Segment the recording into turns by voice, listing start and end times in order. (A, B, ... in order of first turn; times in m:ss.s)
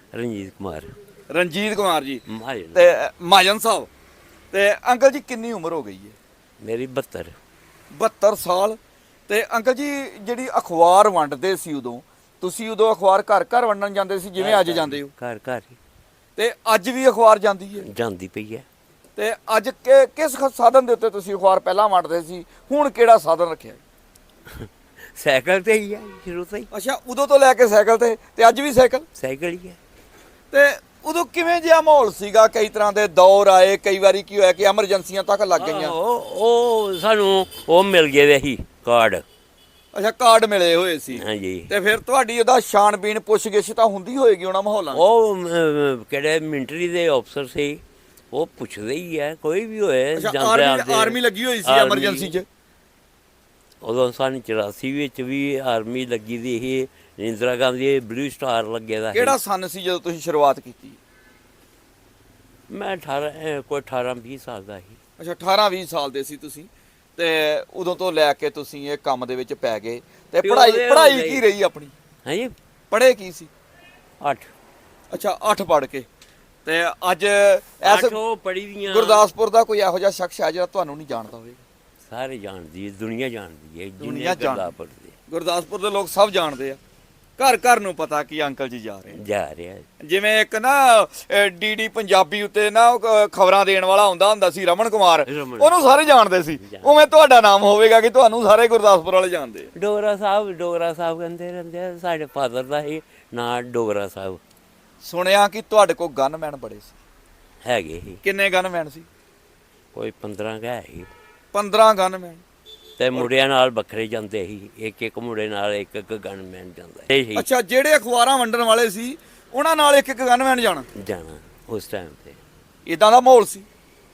0:00.1-0:01.0 A
0:01.3-0:03.9 B
0:02.3-0:02.9 A
0:04.5-0:06.2 B
0:06.6-0:07.4 A
0:07.9-0:15.1 B
0:14.4-0:15.8 A
0:16.4-0:17.9 B
0:17.8-0:18.7 A
0:19.2-0:23.8 B
0:24.5-0:26.7 A
0:26.7-0:29.1 B
0:29.2-0:29.8 A
0:30.5-0:36.0 B
0:35.6-0:39.2 A
0:39.9-0:45.0 B
0:41.1-0:41.7 A
0:44.9-0:47.8 A
0:48.3-0:52.4 A
0:50.2-0:52.4 B
0:53.8-0:59.4 A
0:59.1-1:01.0 B
1:02.7-1:05.0 A
1:05.2-1:11.9 B
1:10.4-1:11.4 A
1:12.2-1:12.6 A
1:12.9-1:13.5 B
1:14.2-1:14.5 A
1:15.1-1:16.1 B
1:16.6-1:18.2 B
1:17.8-1:19.3 A
1:18.9-1:21.6 B
1:22.1-1:25.1 A
1:24.0-1:24.7 B
1:25.3-1:26.8 B
1:27.4-1:29.2 B
1:29.1-1:29.9 A
1:30.0-1:39.7 B
1:35.2-1:35.8 A
1:36.6-1:37.0 A
1:39.8-1:44.4 A
1:45.0-1:46.9 B
1:47.6-1:48.2 A
1:48.2-1:49.1 B
1:49.9-1:51.1 A
1:51.5-1:52.4 B
1:53.0-1:57.5 A
1:57.3-2:00.9 B
2:01.0-2:02.4 A
2:02.8-2:03.7 B